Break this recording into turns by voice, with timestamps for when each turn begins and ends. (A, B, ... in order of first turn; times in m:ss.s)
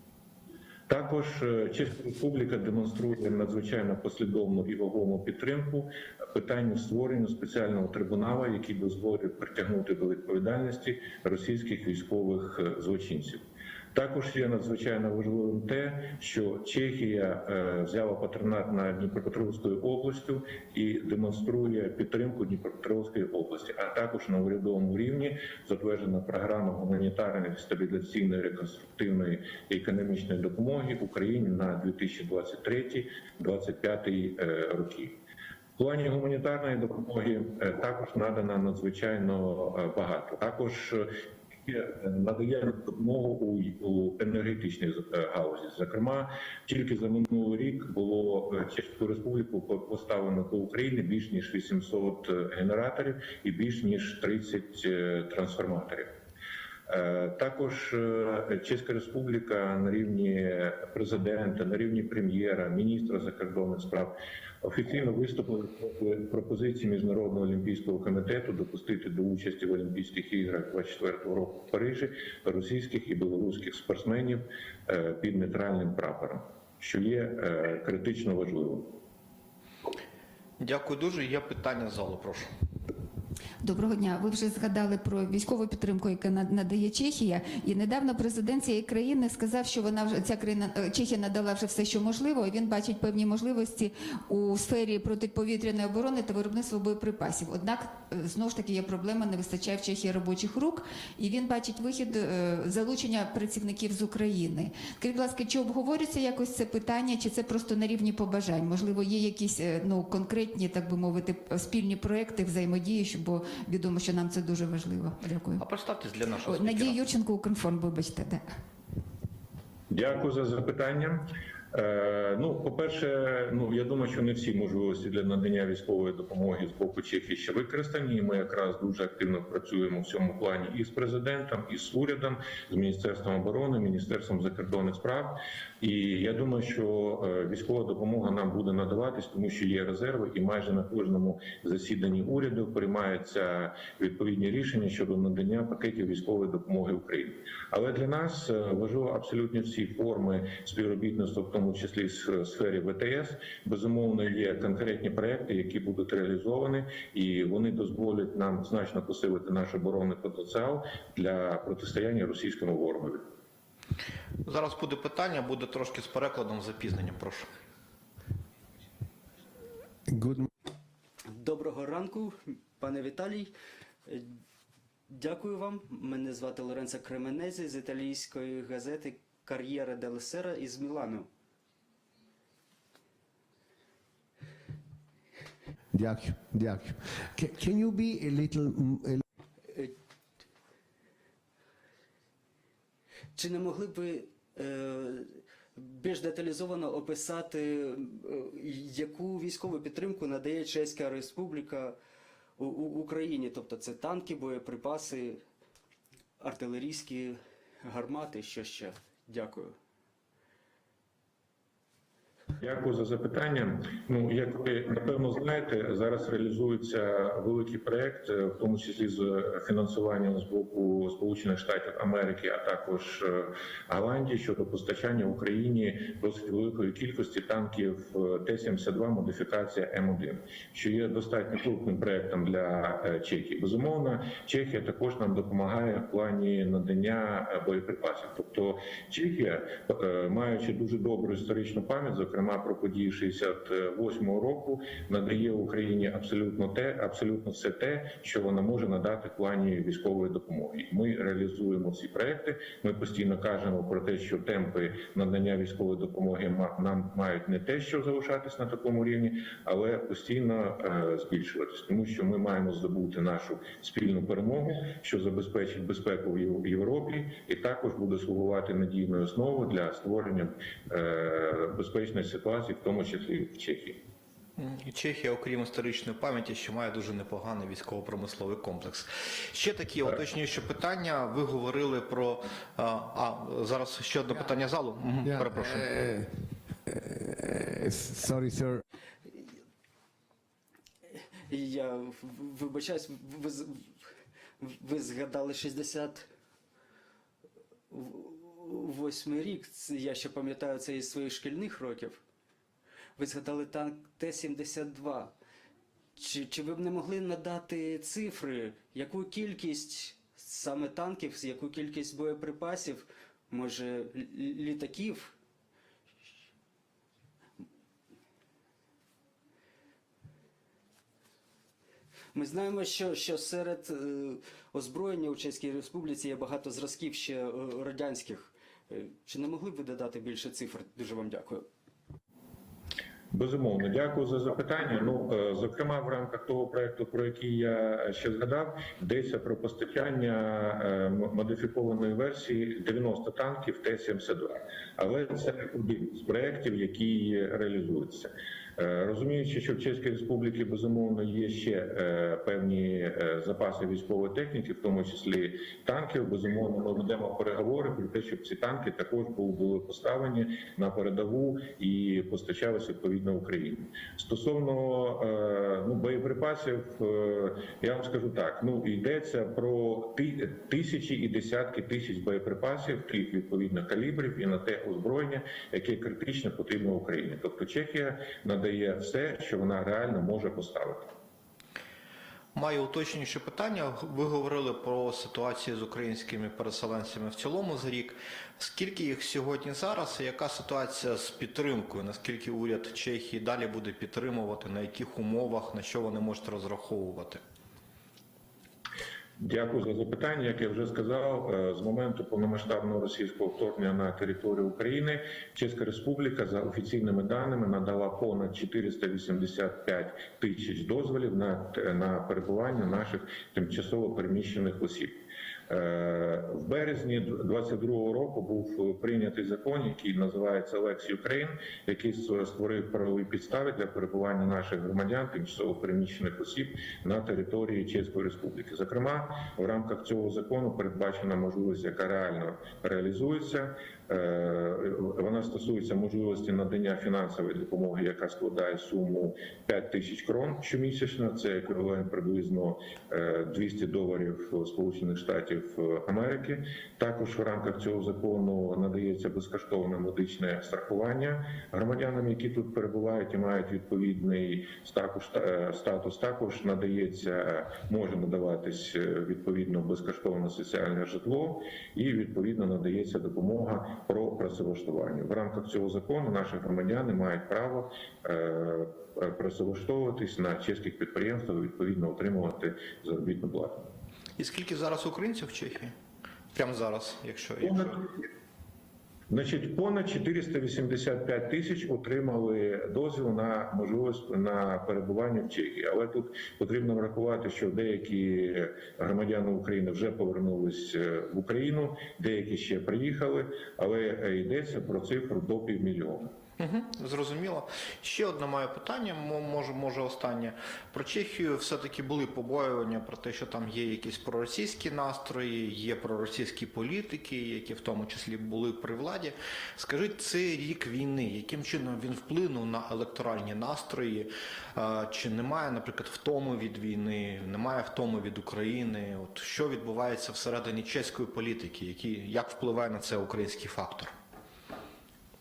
0:00.9-0:35.1 A
0:35.8-0:41.1 A
0:41.6-0:56.1 A
0:56.9-1:18.9 A
1:20.6-1:22.5 B
1:23.6-1:55.6 C
1:55.6-1:57.0 B
1:56.4-1:58.4 C
1:59.9-2:43.2 A
2:44.4-2:47.5 B
2:50.1-2:50.5 D
2:51.3-2:53.5 E
2:55.1-3:01.3 E
3:05.9-3:09.2 D
3:13.4-3:22.0 E
3:22.6-3:25.4 E
3:26.4-3:29.7 E
3:32.6-4:34.0 A
4:34.6-4:46.0 B
4:45.2-4:46.3 D
4:46.9-4:48.8 D
4:51.5-4:53.9 E
4:54.6-4:56.2 E
4:57.9-5:02.2 E
5:03.2-5:05.3 E
5:06.2-5:15.4 E
5:22.3-5:31.6 E
5:33.3-6:21.1 A
6:22.5-6:37.4 B
6:39.4-6:55.1 A
6:55.7-7:53.9 A
7:54.4-7:55.9 B
7:56.5-7:58.0 B
7:57.6-7:57.9 A
7:59.3-8:16.3 A
8:16.6-8:44.1 B